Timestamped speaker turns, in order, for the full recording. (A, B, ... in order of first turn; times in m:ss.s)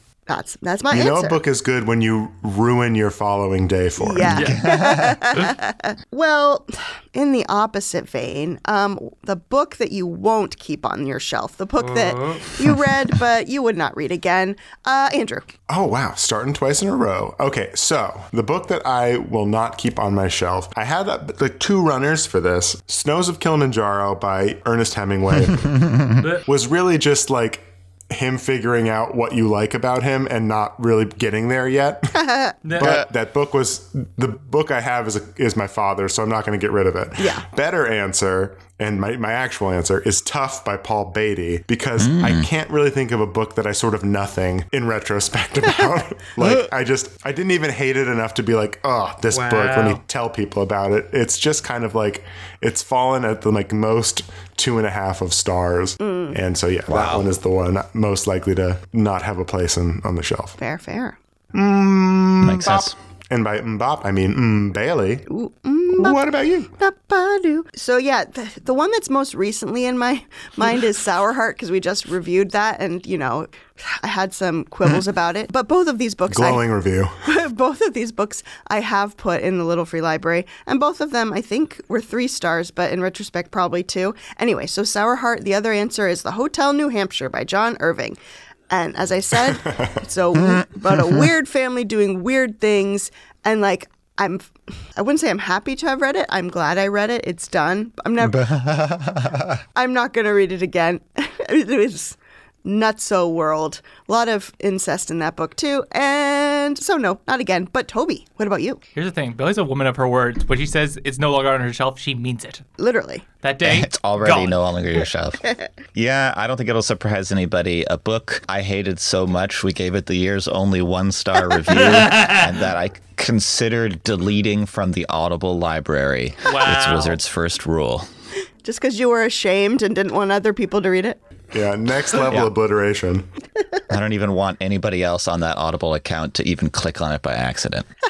0:00.3-0:01.4 A
0:00.9-0:04.4 B
0:04.0-0:15.4 A
0:04.2-0:05.4 C
0:04.3-0:04.6 D
0:11.8-0:12.5 D
0:15.7-0:32.2 B
0:25.4-0:26.2 C
0:26.2-0:26.4 D
0:32.1-0:32.6 A
0:32.6-0:33.0 D
0:32.7-1:00.6 B
0:32.8-0:33.1 C
0:37.2-0:37.4 A
0:42.0-0:42.5 C
0:46.4-0:46.7 C
0:49.3-0:50.0 D
0:56.0-0:56.4 A
0:56.9-0:57.3 C
1:00.6-1:01.2 A
1:01.5-1:05.3 B
1:02.4-1:02.9 C
1:05.3-1:16.6 A
1:05.9-1:06.7 B
1:16.3-1:17.1 B
1:17.2-1:28.2 A
1:28.7-1:38.5 A
1:29.5-1:30.0 B
1:30.3-1:31.3 C
1:38.2-1:39.6 C
1:39.7-1:48.8 A
1:48.9-1:52.6 D
1:52.8-1:53.2 A
1:53.4-1:54.6 D
1:53.6-1:55.4 C
1:55.9-2:08.0 C
2:01.7-2:02.5 D
2:06.4-2:07.2 D
2:08.6-2:11.2 A
2:11.5-2:13.3 B
2:12.2-2:12.5 C
2:13.9-2:17.9 C